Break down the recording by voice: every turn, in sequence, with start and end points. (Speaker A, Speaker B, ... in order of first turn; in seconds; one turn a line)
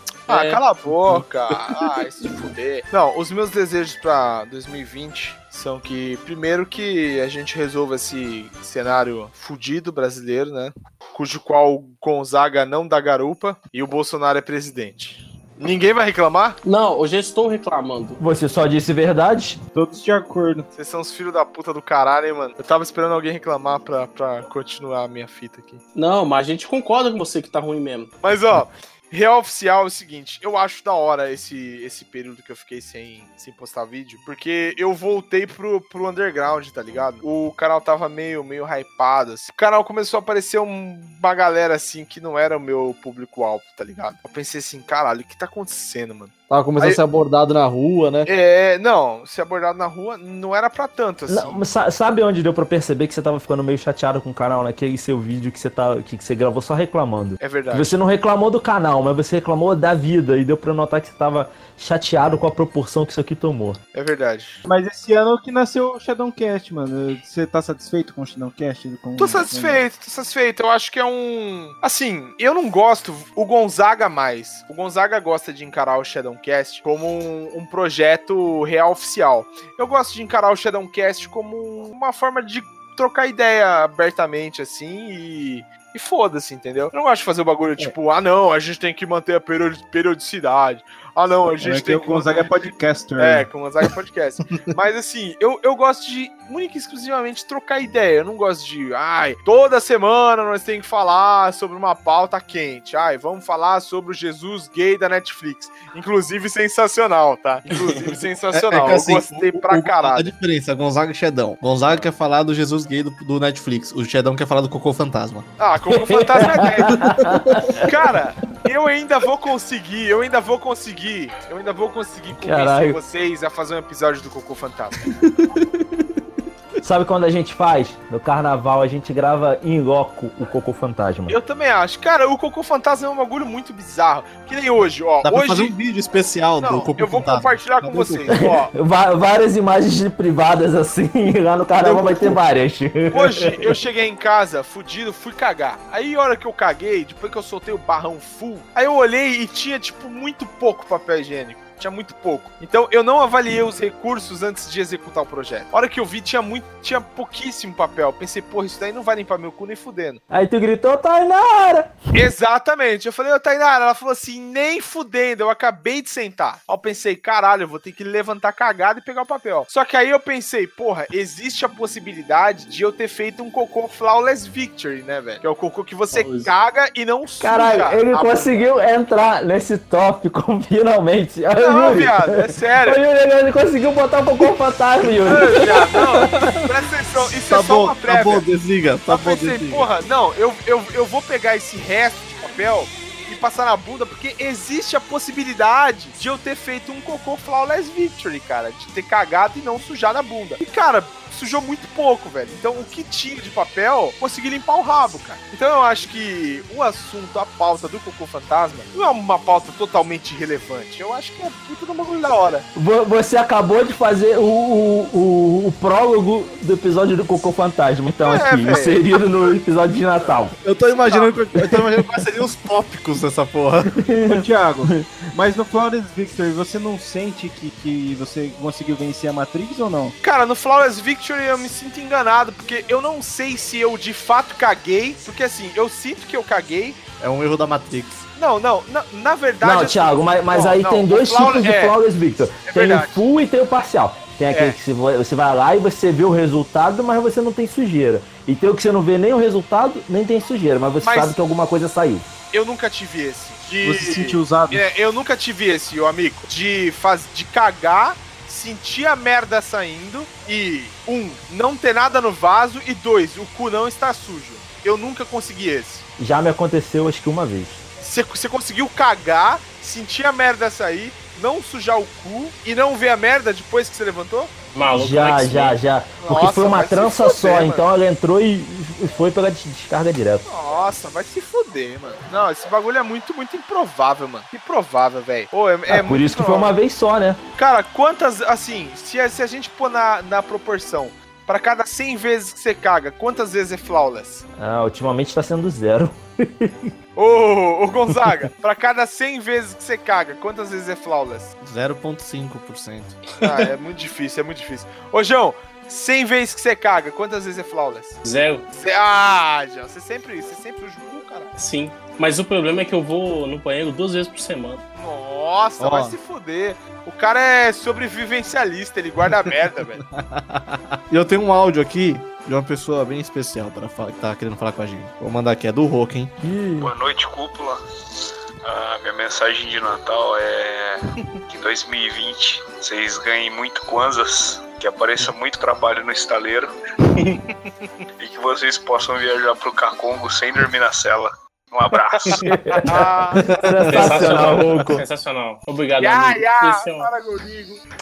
Speaker A: 0.3-1.2
Speaker B: 0.3-16.6
Speaker A: 16.6-18.2
Speaker C: 18.2-19.6
Speaker D: 19.7-20.7
Speaker B: 20.7-25.8
Speaker A: 25.9-28.1
Speaker B: 28.2-47.0
Speaker E: 46.5-48.3
Speaker B: 48.2-51.6
Speaker C: 51.3-63.8
Speaker B: 57.4-58.0
Speaker B: 63.9-64.6
Speaker D: 64.7-69.8
Speaker B: 69.2-92.5
Speaker D: 91.6-93.5
Speaker B: 93.2-110.3
Speaker A: 107.9-108.2
Speaker E: 108.5-115.5
Speaker B: 115.6-117.2
Speaker C: 115.9-117.9
Speaker E: 116.9-117.4
Speaker B: 117.8-125.0
Speaker C: 122.4-123.0
Speaker E: 125.2-125.6
Speaker C: 126.8-131.4
Speaker B: 131.3-135.8
Speaker E: 135.2-138.4
Speaker B: 136.6-138.7
Speaker C: 138.3-143.7
Speaker E: 141.8-142.3
Speaker B: 143.1-160.2
Speaker C: 160.3-161.9
Speaker B: 162.1-178.6
Speaker A: 176.1-176.5
Speaker C: 177.4-186.5
Speaker B: 181.6-183.0
Speaker B: 185.3-188.5
Speaker E: 186.3-186.6
Speaker E: 187.4-189.9
Speaker B: 189.1-212.7
Speaker C: 212.7-220.6
Speaker B: 218.2-219.1
Speaker E: 220.6-224.0
Speaker B: 220.9-221.4
Speaker C: 224.0-225.2
Speaker D: 224.3-230.1
Speaker B: 230.2-237.0
Speaker E: 237.2-238.2
Speaker B: 238.4-242.0
Speaker C: 239.6-252.3
Speaker B: 242.6-243.2
Speaker B: 244.5-244.8
Speaker B: 251.0-251.4
Speaker B: 252.5-266.1
Speaker D: 253.8-254.8
Speaker C: 266.2-267.8
Speaker B: 268.0-274.5
Speaker A: 274.7-275.8
Speaker C: 274.9-280.4
Speaker B: 276.2-277.8
Speaker B: 280.4-286.8
Speaker C: 285.9-287.4
Speaker B: 287.6-294.4
Speaker C: 294.6-296.9
Speaker B: 297.1-301.5
Speaker E: 301.6-303.1
Speaker B: 303.4-308.2
Speaker A: 308.2-308.6
Speaker B: 308.7-311.5
Speaker A: 311.6-314.8
Speaker B: 314.9-320.0
Speaker E: 315.8-316.1
Speaker E: 320.1-326.3
Speaker C: 326.4-326.9
Speaker F: 326.8-327.8
Speaker F: 328.6-336.7
Speaker F: 338.2-342.4
Speaker C: 342.4-345.0
Speaker B: 342.8-344.5
Speaker E: 343.4-345.0
Speaker A: 343.9-347.1
Speaker B: 346.0-347.8